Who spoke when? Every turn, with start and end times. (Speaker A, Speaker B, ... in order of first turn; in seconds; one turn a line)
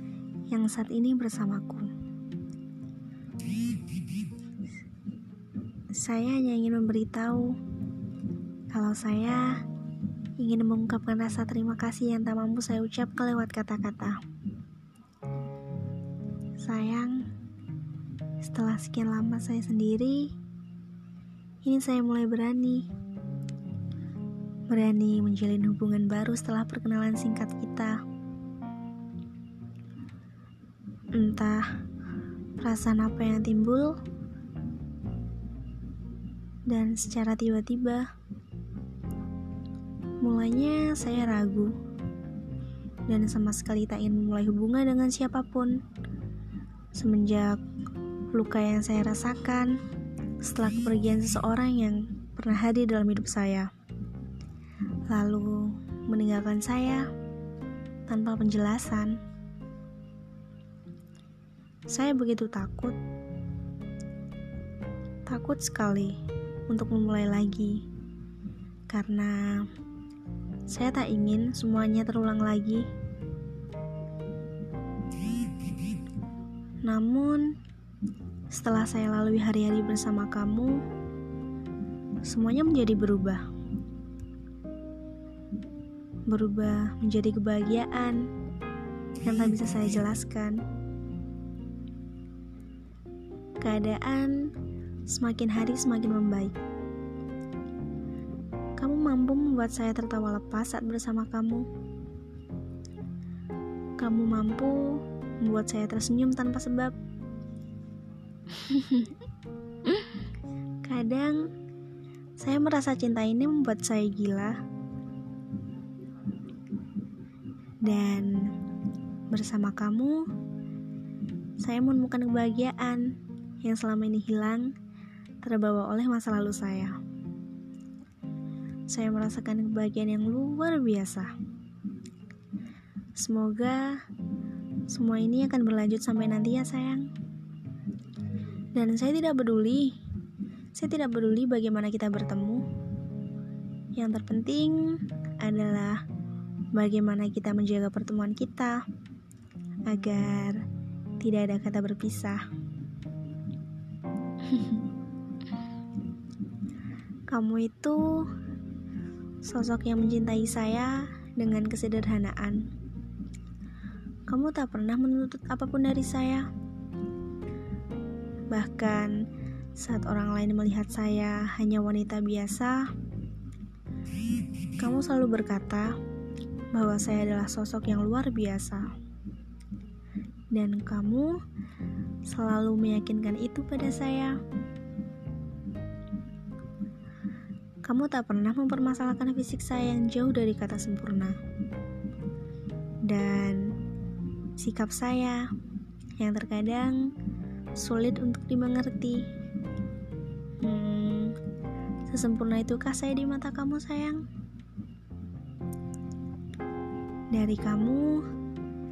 Speaker A: 0.5-1.9
Speaker A: 5.9-7.6
Speaker A: 8.7-9.6
Speaker A: 10.4-14.2
Speaker A: 16.6-17.3
Speaker A: 18.4-20.3
Speaker A: 21.6-22.9
Speaker A: 24.7-28.0
Speaker A: 31.1-31.7
Speaker A: 32.6-34.0
Speaker A: 36.7-38.1
Speaker A: 40.2-41.7
Speaker A: 43.1-45.8
Speaker A: 46.9-47.6
Speaker A: 48.3-49.8
Speaker A: 50.4-53.7
Speaker A: 55.1-57.0
Speaker A: 58.1-59.2
Speaker A: 61.9-63.0
Speaker A: 65.3-67.8
Speaker A: 68.9-69.7
Speaker A: 70.7-72.9
Speaker A: 76.8-77.5
Speaker A: 78.5-80.8
Speaker A: 82.2-83.4
Speaker A: 86.3-88.3
Speaker A: 89.2-90.6
Speaker A: 93.6-94.4
Speaker A: 95.1-96.5
Speaker A: 98.8-101.7
Speaker A: 104.0-106.9
Speaker A: 108.5-109.2
Speaker A: 109.8-110.2
Speaker A: 110.8-111.5
Speaker A: 112.4-114.5
Speaker A: 117.8-118.5
Speaker A: 119.3-120.2
Speaker A: 121.6-124.7
Speaker A: 125.4-127.0
Speaker A: 128.9-131.3
Speaker A: 133.2-134.0
Speaker A: 134.9-137.1
Speaker A: 138.7-139.9
Speaker A: 140.7-142.6
Speaker A: 143.9-146.0
Speaker A: 146.7-148.8
Speaker A: 149.9-150.6
Speaker A: 151.2-152.4
Speaker A: 154.4-154.8
Speaker A: 157.3-158.3
Speaker A: 159.4-162.7
Speaker A: 164.3-166.5
Speaker A: 168.5-169.1
Speaker A: 169.8-172.9
Speaker A: 174.8-175.9
Speaker A: 176.7-178.9
Speaker A: 180.5-181.4
Speaker A: 182.2-184.4
Speaker A: 187.8-191.4
Speaker A: 193.0-193.7
Speaker A: 194.6-195.5
Speaker A: 196.2-197.1
Speaker A: 197.8-199.3
Speaker A: 200.6-201.4
Speaker A: 202.1-204.2
Speaker A: 207.3-208.2